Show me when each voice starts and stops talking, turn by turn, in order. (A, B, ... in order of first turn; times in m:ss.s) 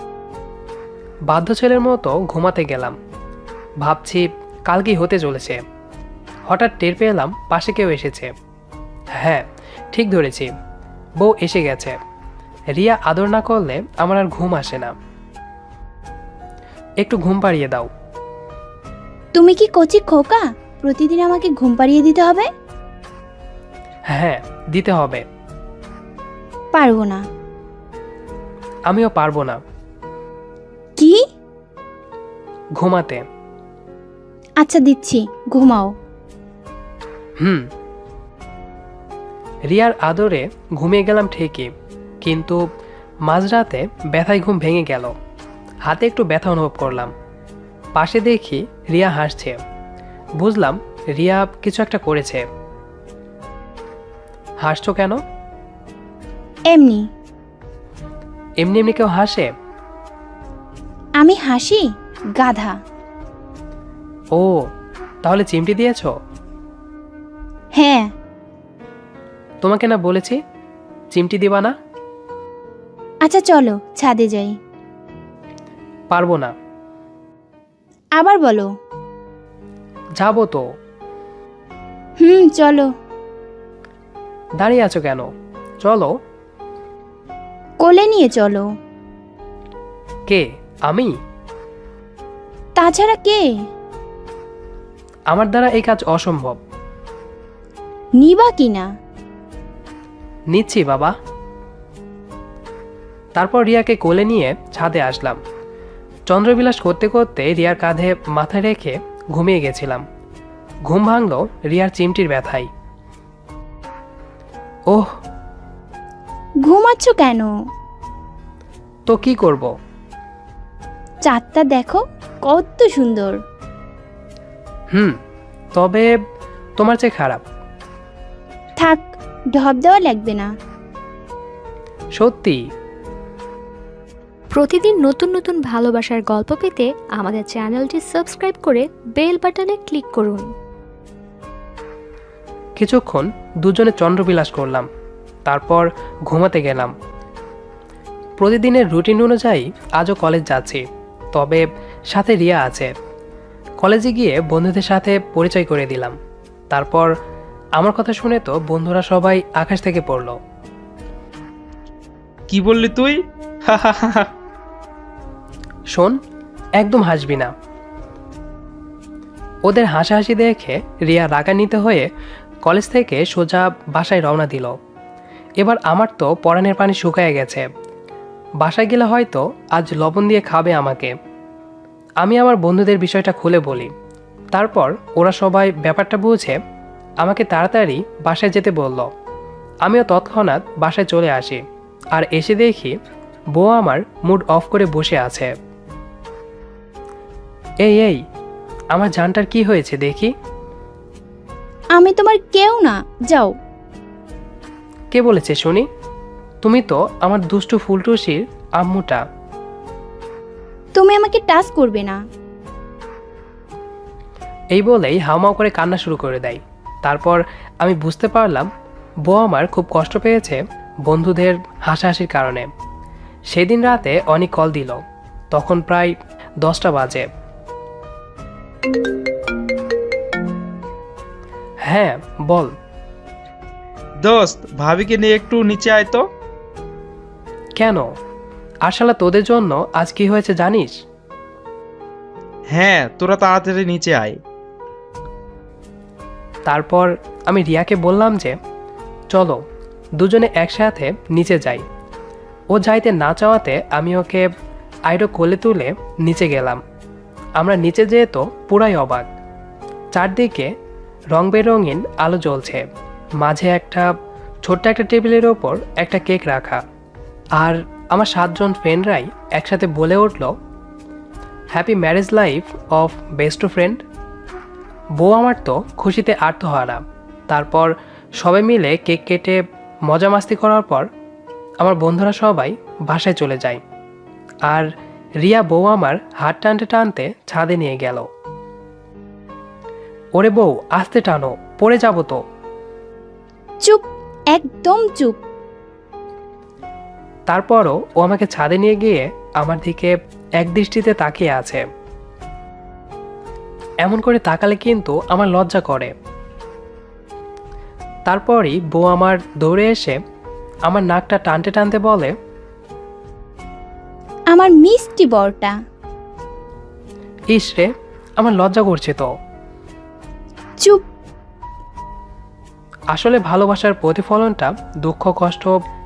0:01.3-0:02.9 A
0:03.8-0:05.6 A
0:06.5-0:08.3 A
0:09.9-0:10.5 A
0:11.2-0:12.0 A
0:12.8-0:14.9 A
0:17.0-0:17.9 A
0:19.3-0:22.5 B
0:24.1-0:25.2 A
0:26.7-0:27.2 B
0:28.9-0:29.6 A
0:32.8-0:33.2 A
0:34.6-0:35.9 B
0:39.7-0:41.7 A
0:42.2-0:42.6 A
0:43.3-0:45.1 A
0:45.8-0:47.1 A
0:48.0-0:49.6 A
0:50.4-0:52.4 A
0:54.6-0:55.2 A
0:56.7-0:57.0 B
0:58.6-0:59.5 A
1:01.2-1:01.8 B
1:02.4-1:02.7 B
1:04.3-1:04.6 A
1:05.2-1:06.1 A
1:07.8-1:08.0 B
1:09.6-1:10.4 A
1:11.1-1:11.7 A
1:13.2-1:14.5 B
1:16.1-1:16.5 A
1:18.2-1:18.7 B
1:20.2-1:20.6 A
1:22.2-1:22.8 B
1:24.6-1:25.3 A
1:25.8-1:26.1 A
1:27.8-1:28.6 B
1:30.3-1:31.1 A
1:32.8-1:33.4 B
1:35.3-1:36.6 A
1:38.2-1:38.8 B
1:40.5-1:41.1 A
1:43.4-1:45.4 A
1:46.3-1:50.0 A
1:50.9-1:52.7 A
1:56.6-1:57.5 B
1:59.1-1:59.7 A
2:01.2-2:03.4 B
2:05.8-2:06.1 A
2:06.8-2:07.4 A
2:08.8-2:10.5 B
2:12.2-2:12.6 A
2:14.5-2:20.4 C
2:22.8-2:24.8 A
2:25.5-2:26.9 A
2:28.4-2:30.8 A
2:31.3-2:32.9 A
2:33.8-2:36.1 A
2:36.7-2:37.1 A
2:37.8-2:40.3 A
2:42.5-2:44.3 D
2:46.8-2:47.5 A
2:49.7-2:52.1 A
2:52.6-2:54.8 A
2:55.6-2:57.6 A
2:58.6-3:01.1 A
3:02.2-3:03.9 A
3:04.5-3:06.6 A
3:07.2-3:09.1 A
3:09.8-3:11.6 A
3:12.1-3:12.9 A
3:13.5-3:15.5 A
3:17.8-3:18.2 A
3:18.9-3:20.3 A
3:21.9-3:23.5 B
3:25.1-3:25.8 A
3:26.6-3:29.2 A
3:30.9-3:32.2 B
3:34.7-3:38.7 A
3:39.2-3:42.7 A
3:43.5-3:45.0 A
3:45.5-3:47.2 A
3:51.8-3:52.7 A
3:54.2-3:56.2 D
3:57.8-3:58.0 A
3:58.8-4:00.9 A
4:02.7-4:04.3 D
4:06.7-4:08.5 A
4:09.3-4:09.6 A
4:10.2-4:11.8 A
4:12.7-4:14.4 A
4:15.1-4:16.8 A
4:17.6-4:19.2 A
4:20.1-4:20.7 A
4:21.3-4:22.8 A
4:23.4-4:24.1 A
4:24.6-4:26.8 A
4:27.6-4:30.5 A
4:31.7-4:34.0 A
4:35.2-4:41.0 A
4:41.8-4:43.8 A
4:45.4-4:48.2 A
4:50.4-4:52.4 A
4:53.8-4:55.4 B
4:57.5-5:01.8 A
5:04.0-5:06.1 A
5:08.3-5:10.2 A
5:10.9-5:12.3 A
5:14.5-5:15.7 B
5:17.5-5:19.3 A
5:23.1-5:25.7 A